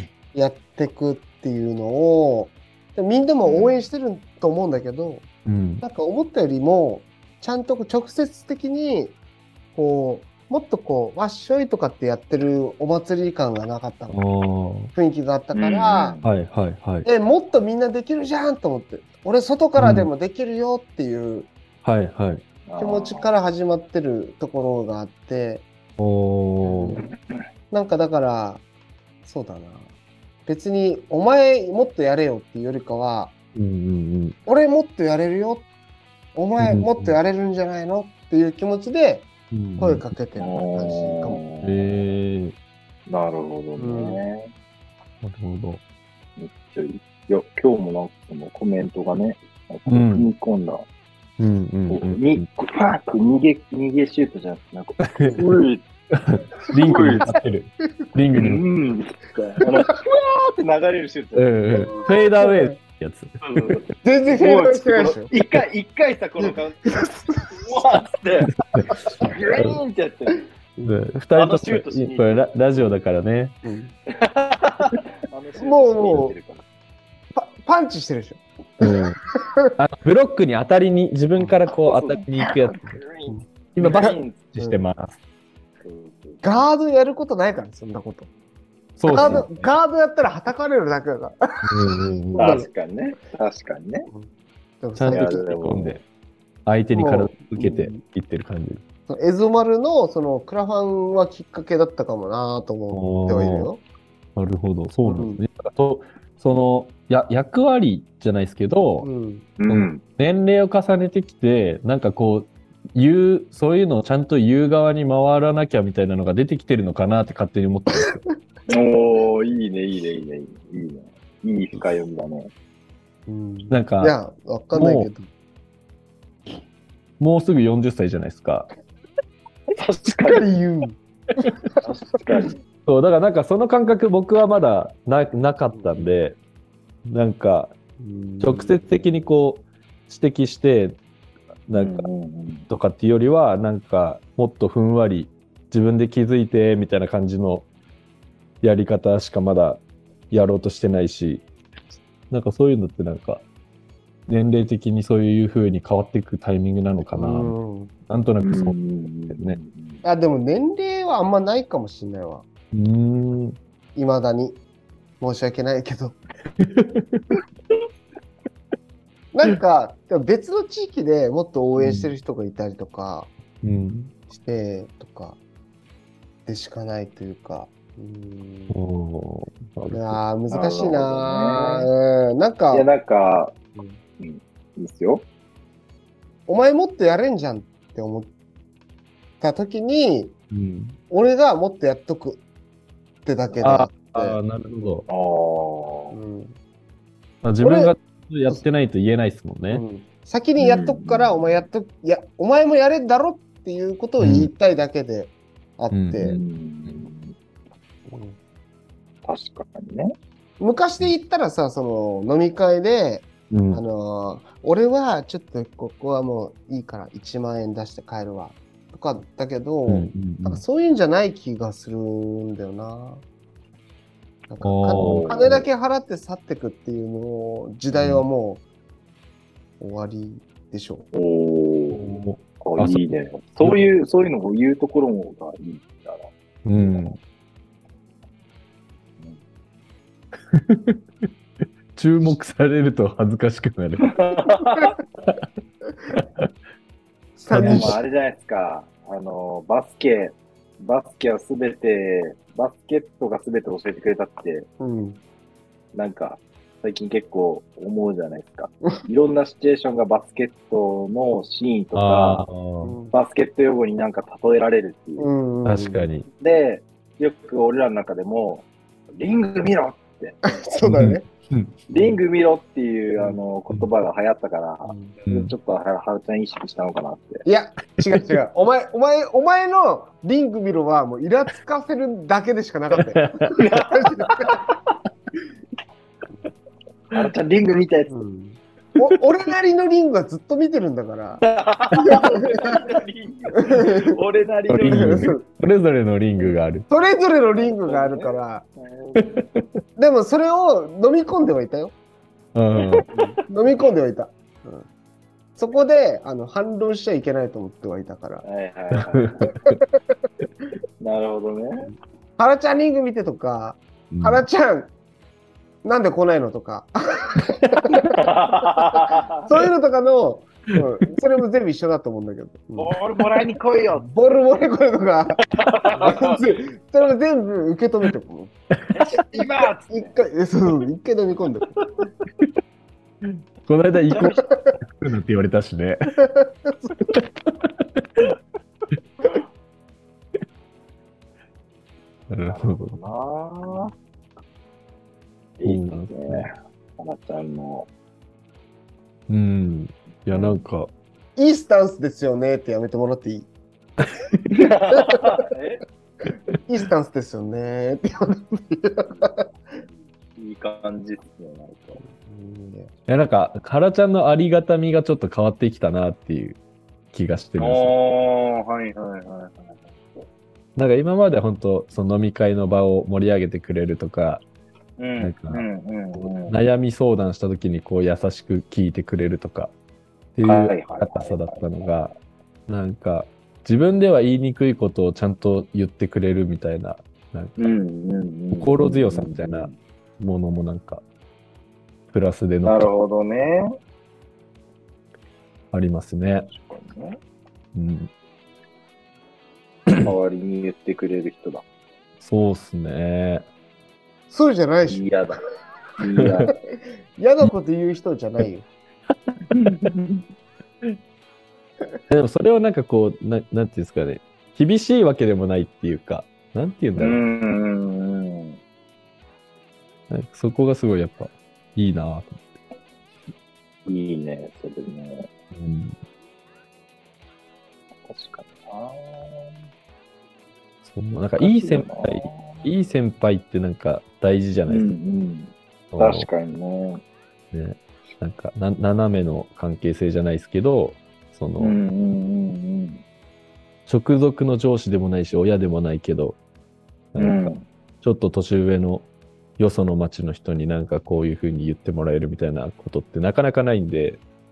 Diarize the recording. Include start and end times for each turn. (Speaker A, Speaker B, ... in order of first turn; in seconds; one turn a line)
Speaker A: 0.3-5.2
Speaker B: 3.4-3.9
Speaker C: 5.5-5.8
Speaker A: 5.8-9.2
Speaker A: 9.8-14.3
Speaker C: 14.1-14.9
Speaker A: 14.9-16.2
Speaker B: 15.5-16.2
Speaker C: 16.2-17.1
Speaker A: 17.0-21.5
Speaker C: 19.8-20.1
Speaker C: 21.8-22.4
Speaker B: 22.7-23.3
Speaker A: 22.8-25.6
Speaker C: 26.0-27.0
Speaker A: 26.6-27.0
Speaker A: 27.7-28.6
Speaker A: 29.2-29.9
Speaker A: 30.5-33.3
Speaker C: 33.5-34.4
Speaker A: 34.5-35.7
Speaker A: 36.4-41.4
Speaker C: 36.6-37.2
Speaker C: 39.5-40.1
Speaker B: 40.4-41.7
Speaker C: 41.6-42.5
Speaker B: 43.1-44.4
Speaker A: 43.8-44.2
Speaker C: 45.2-45.8
Speaker B: 46.4-50.8
Speaker C: 49.9-50.3
Speaker C: 51.4-52.4
Speaker B: 51.9-55.8
Speaker C: 55.0-55.4
Speaker C: 56.1-58.6
Speaker B: 56.8-57.4
Speaker B: 58.4-62.1
Speaker C: 61.4-63.6
Speaker A: 61.7-62.8
Speaker B: 63.4-67.0
Speaker A: 64.0-65.3
Speaker A: 66.4-67.8
Speaker B: 67.6-70.5
Speaker C: 68.5-68.9
Speaker C: 70.8-73.6
Speaker B: 71.3-73.0
Speaker A: 73.6-73.9
Speaker B: 74.2-76.6
Speaker A: 75.6-76.4
Speaker A: 77.3-79.7
Speaker C: 78.8-79.2
Speaker C: 79.8-83.0
Speaker A: 81.4-81.6
Speaker B: 81.8-84.5
Speaker A: 83.2-84.8
Speaker C: 83.8-85.2
Speaker B: 85.8-86.4
Speaker A: 86.4-88.3
Speaker C: 89.0-89.7
Speaker A: 89.1-91.4
Speaker B: 89.1-89.5
Speaker C: 91.7-92.6
Speaker B: 92.3-94.1
Speaker A: 92.4-92.7
Speaker A: 94.8-95.5
Speaker C: 95.0-96.0
Speaker B: 95.1-96.0
Speaker C: 96.7-98.8
Speaker A: 96.9-98.0
Speaker A: 99.1-103.8
Speaker C: 102.9-103.7
Speaker C: 104.4-109.1
Speaker A: 105.0-105.4
Speaker A: 109.0-109.5
Speaker B: 109.6-110.0
Speaker C: 109.7-118.2
Speaker B: 118.7-122.5
Speaker A: 123.3-125.3
Speaker C: 123.7-124.2
Speaker C: 124.7-125.1
Speaker C: 127.2-128.7
Speaker B: 129.7-130.6
Speaker A: 130.2-131.7
Speaker B: 131.8-132.6
Speaker C: 132.9-136.4
Speaker A: 135.7-136.1
Speaker C: 137.1-137.7
Speaker A: 138.0-139.0
Speaker C: 138.4-141.0
Speaker C: 141.7-142.1
Speaker B: 141.7-142.7
Speaker C: 142.7-147.7
Speaker C: 148.6-151.4
Speaker C: 152.3-153.4
Speaker C: 154.3-157.5
Speaker A: 157.1-157.9
Speaker C: 158.1-158.8
Speaker B: 158.4-160.0
Speaker C: 159.3-159.6
Speaker A: 160.0-162.4
Speaker C: 162.7-163.6
Speaker A: 163.9-164.6
Speaker A: 165.2-166.2
Speaker C: 166.6-167.2
Speaker A: 169.3-173.3
Speaker C: 171.8-172.1
Speaker C: 173.6-174.1
Speaker A: 174.3-175.4
Speaker A: 176.4-178.8
Speaker C: 178.7-180.2
Speaker A: 179.9-182.9
Speaker B: 180.5-181.9
Speaker B: 182.7-183.5
Speaker A: 183.8-184.0
Speaker B: 184.2-185.2
Speaker A: 186.5-188.3
Speaker A: 189.4-190.3
Speaker C: 190.5-191.0
Speaker A: 191.1-192.4
Speaker A: 193.2-194.4
Speaker C: 193.6-195.1
Speaker B: 195.1-196.2
Speaker A: 196.1-196.6
Speaker C: 197.4-199.8
Speaker A: 197.6-197.9
Speaker A: 199.7-206.4
Speaker B: 200.6-201.7
Speaker C: 204.2-204.5
Speaker C: 205.9-207.1
Speaker B: 206.3-207.3
Speaker A: 208.1-208.4
Speaker B: 209.3-210.1
Speaker A: 210.6-223.2
Speaker C: 213.5-213.8
Speaker C: 219.9-220.6
Speaker A: 224.5-228.6
Speaker C: 224.6-225.6
Speaker B: 224.9-225.7
Speaker C: 227.9-228.3
Speaker A: 229.8-231.1
Speaker B: 231.1-232.1
Speaker C: 231.9-233.0
Speaker B: 232.6-237.2
Speaker C: 236.7-237.2
Speaker C: 240.5-241.0
Speaker C: 241.9-244.1
Speaker B: 244.0-244.9
Speaker C: 246.1-246.5
Speaker A: 247.4-248.0
Speaker C: 247.5-248.0
Speaker B: 247.5-254.7
Speaker A: 254.8-255.2
Speaker B: 255.9-262.4
Speaker C: 261.9-263.0
Speaker A: 262.8-263.1
Speaker B: 263.1-265.3
Speaker A: 265.2-266.1
Speaker C: 265.6-266.3
Speaker B: 266.3-270.4
Speaker A: 270.4-271.3
Speaker C: 270.9-271.9
Speaker B: 271.9-277.4
Speaker A: 274.8-275.2
Speaker C: 275.3-275.5
Speaker A: 277.4-284.4
Speaker C: 282.9-283.4
Speaker B: 283.6-284.6
Speaker B: 287.1-288.1
Speaker A: 288.1-291.4
Speaker B: 291.4-295.3
Speaker A: 292.0-292.8
Speaker A: 293.6-294.2
Speaker C: 294.7-296.9
Speaker A: 294.9-295.4
Speaker A: 296.9-298.6
Speaker B: 297.4-299.6
Speaker A: 299.9-301.9
Speaker C: 302.5-303.0
Speaker A: 303.1-304.9
Speaker A: 305.6-308.4
Speaker B: 308.4-309.5
Speaker C: 309.2-309.8
Speaker B: 311.0-311.9
Speaker A: 312.4-314.9
Speaker C: 314.1-314.4
Speaker A: 315.8-318.2
Speaker B: 318.2-319.3
Speaker A: 319.4-323.0
Speaker B: 322.8-324.1
Speaker A: 323.9-325.4
Speaker B: 325.6-326.4
Speaker A: 325.9-328.5
Speaker B: 328.9-330.2
Speaker A: 329.3-331.7
Speaker C: 333.6-336.2
Speaker B: 333.9-334.4
Speaker A: 334.2-334.8
Speaker A: 336.4-336.9
Speaker C: 337.1-338.0
Speaker C: 342.3-343.0
Speaker B: 342.4-343.9
Speaker B: 345.6-346.5
Speaker C: 345.6-346.5
Speaker B: 347.0-347.9
Speaker C: 349.3-350.9
Speaker B: 350.3-350.6
Speaker A: 351.4-353.5
Speaker C: 354.1-354.5
Speaker B: 354.5-355.8
Speaker A: 356.7-359.5
Speaker B: 359.1-362.0
Speaker A: 362.0-362.9
Speaker C: 363.1-366.6
Speaker C: 367.1-367.9
Speaker B: 367.6-370.2
Speaker C: 370.8-374.4
Speaker B: 375.0-376.6
Speaker C: 375.2-379.7
Speaker C: 380.4-382.1
Speaker B: 380.4-381.9
Speaker C: 382.7-387.7
Speaker B: 387.6-389.8
Speaker C: 388.6-391.0
Speaker C: 392.1-392.9
Speaker B: 392.6-393.7
Speaker C: 395.7-396.5
Speaker B: 396.5-397.2
Speaker C: 397.8-398.1
Speaker B: 399.9-401.6
Speaker C: 402.2-403.4
Speaker A: 404.3-405.1
Speaker B: 404.9-405.4
Speaker B: 406.0-406.5
Speaker C: 406.2-406.4
Speaker A: 407.2-408.7
Speaker B: 409.5-410.2
Speaker C: 412.1-417.2
Speaker B: 416.9-418.6
Speaker C: 420.1-422.6
Speaker B: 423.9-425.3
Speaker C: 425.5-425.9
Speaker B: 428.1-429.5
Speaker C: 430.8-435.0
Speaker B: 431.4-432.7
Speaker B: 434.7-437.0
Speaker C: 435.9-436.3
Speaker C: 437.5-441.8
Speaker B: 441.6-443.0
Speaker C: 443.9-446.4
Speaker C: 447.1-454.2
Speaker B: 447.2-447.6